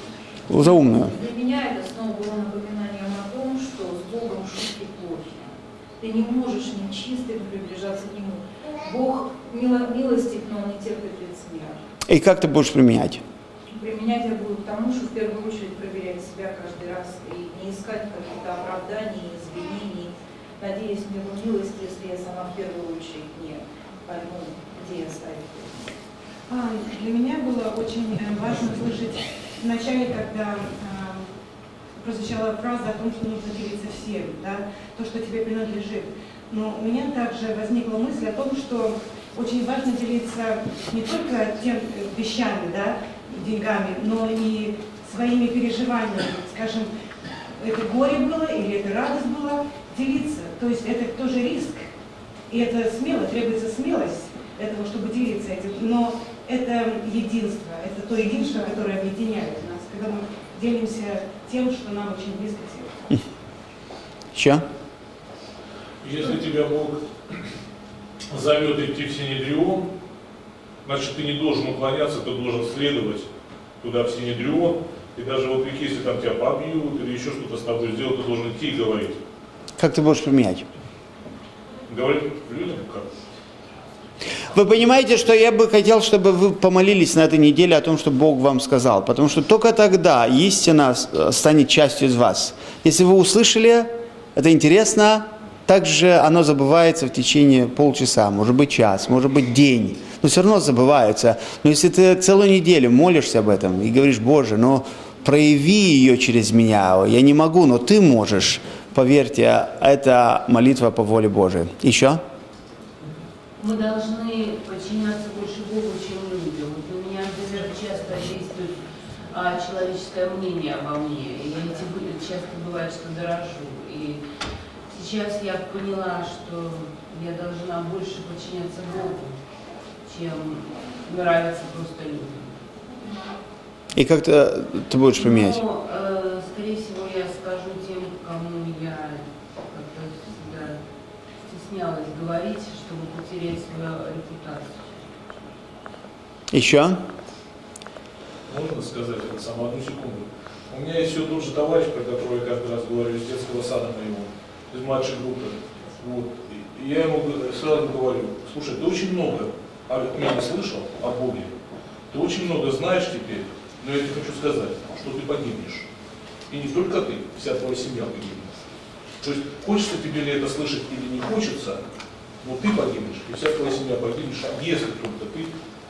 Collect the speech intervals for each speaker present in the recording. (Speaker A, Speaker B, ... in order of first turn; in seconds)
Speaker A: 0.5-1.1, 12.1-13.2, 64.3-64.6, 79.8-80.7, 84.5-112.2, 134.0-135.6, 146.5-147.0
Speaker B: 1.0-11.8, 13.7-25.8
Speaker C: 26.5-31.3, 32.0-46.9, 47.6-51.9, 52.5-63.0
Speaker D: 66.0-67.0, 68.3-69.9, 70.8-73.3, 73.8-79.2, 81.9-83.2, 148.5-161.5, 162.1-165.9, 166.5-168.6, 169.2-171.8, 172.4-175.6
Speaker E: 113.6-118.8, 119.3-124.2, 124.9-129.4, 130.1-132.6, 135.2-140.8, 141.4-145.0